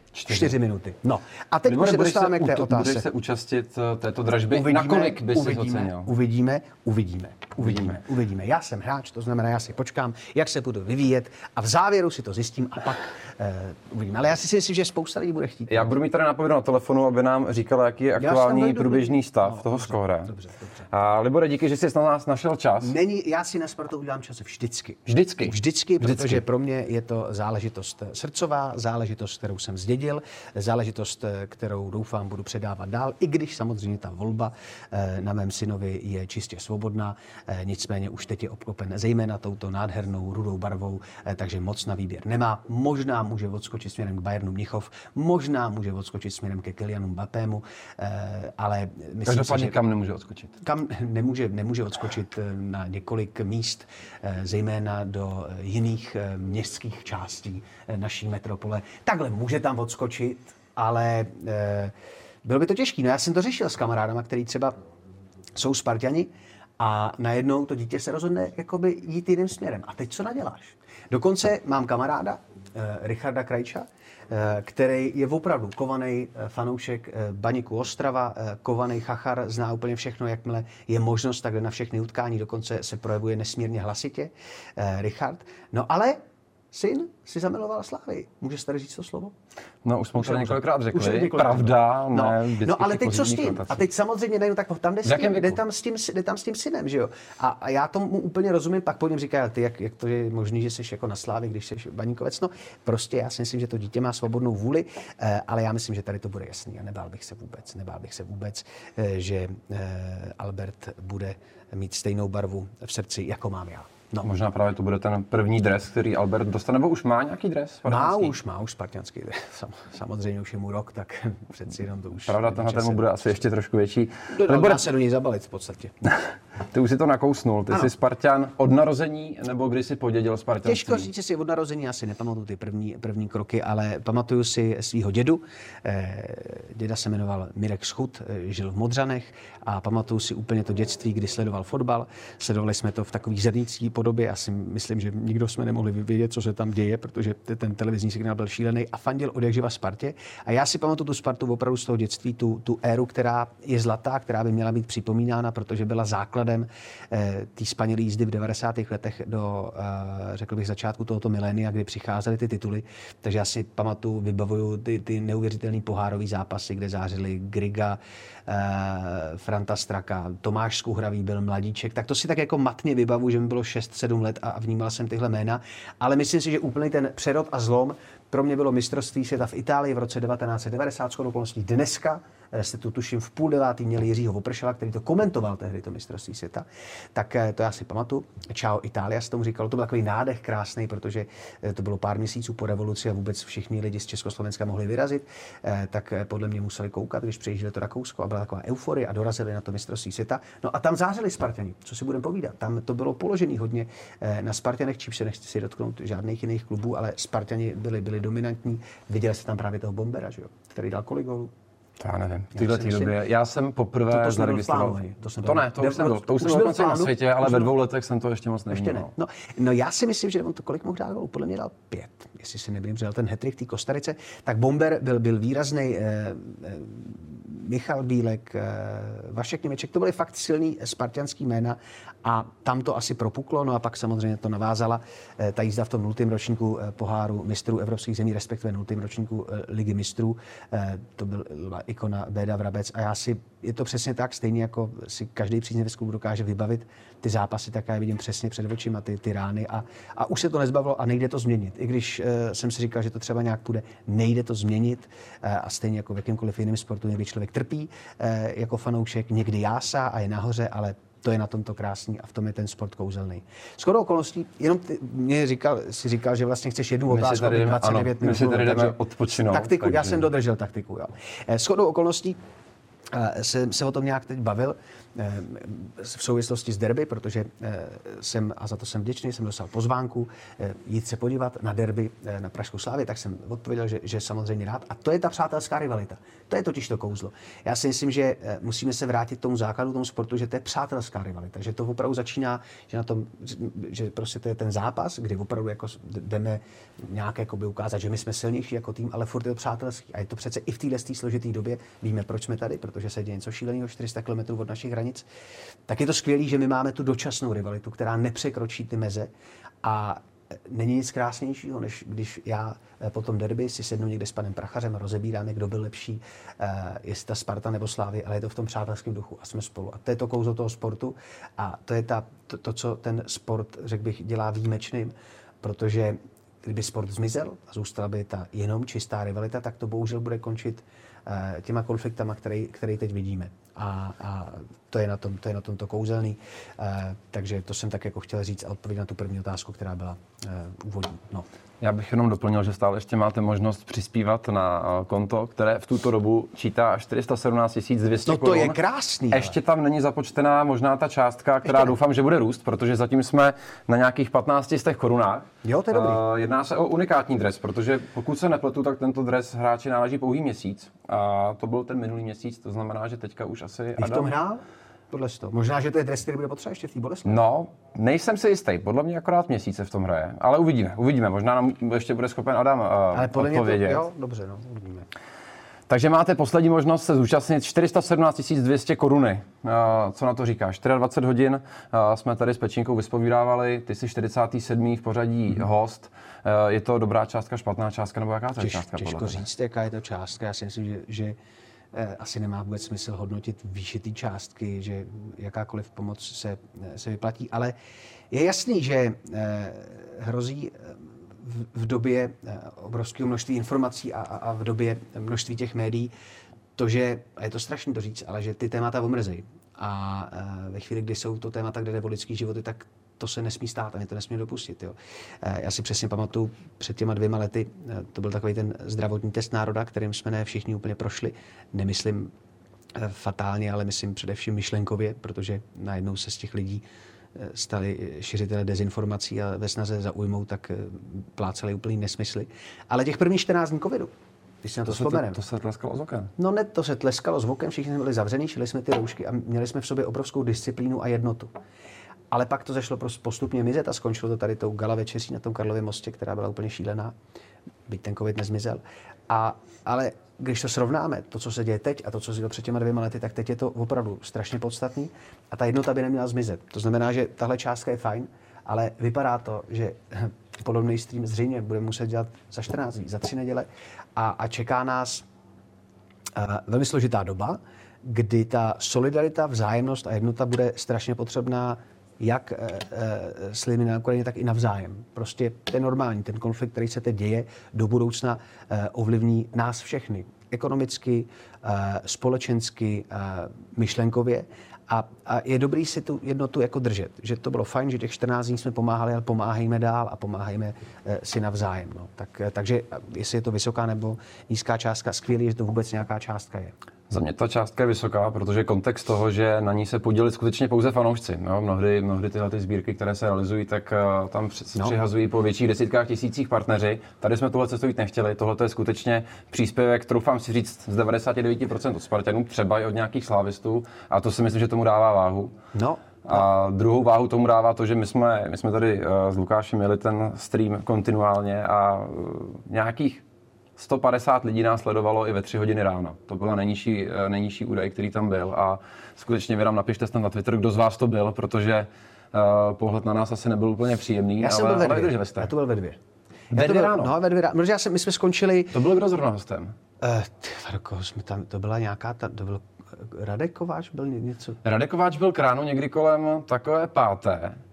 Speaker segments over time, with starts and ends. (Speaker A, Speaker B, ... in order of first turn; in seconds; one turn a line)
Speaker A: 0.1-0.5
Speaker B: 0.3-3.0
Speaker A: 1.6-6.1
Speaker B: 4.5-15.9
Speaker A: 7.6-8.0
Speaker A: 15.7-20.3
Speaker B: 18.2-20.9
Speaker A: 20.9-22.9
Speaker B: 22.8-49.8
Speaker A: 25.1-26.4
Speaker A: 49.2-50.5
Speaker B: 50.6-64.8
Speaker B: 65.5-86.2
Speaker B: 86.7-89.3
Speaker A: 89.8-93.8
Speaker B: 90.2-114.3
Speaker A: 95.0-95.6
Speaker A: 114.2-118.3
Speaker B: 117.8-123.4
Speaker A: 122.2-124.8
Speaker B: 124.3-125.9
Speaker A: 126.1-131.1
Speaker B: 130.6-211.5
Speaker A: 212.0-219.1
Speaker B: 212.5-213.2
Speaker B: 214.1-217.7
Speaker B: 218.7-272.4
Speaker A: 267.1-270.3
Speaker B: 273.1-305.2
Speaker B: 305.9-309.3
Speaker B: 309.8-341.5
Speaker A: 341.8-348.8
Speaker B: 348.2-349.6
Speaker A: 349.3-364.3
Speaker B: 351.6-351.9
Speaker B: 355.6-356.2
Speaker B: 364.0-367.4
Speaker A: 367.2-374.0
Speaker B: 373.1-375.1
Speaker A: 375.9-389.4
Speaker B: 388.6-391.4
Speaker B: 391.9-397.8
Speaker B: 398.3-406.1
Speaker B: 406.8-422.3
Speaker B: 422.9-426.8
Speaker B: 427.3-434.1
Speaker B: 434.6-435.4
Speaker A: 434.9-436.3
Speaker B: 436.4-441.5
Speaker B: 442.3-447.1
Speaker B: 447.9-465.2
Speaker B: 466.3-496.7
Speaker A: 497.1-515.5
Speaker B: 515.7-516.4
Speaker A: 516.2-523.2
Speaker A: 523.8-535.5
Speaker B: 534.4-536.0
Speaker A: 536.5-537.1
Speaker B: 536.5-538.8
Speaker A: 538.7-539.7
Speaker B: 540.0-544.6
Speaker A: 544.6-547.6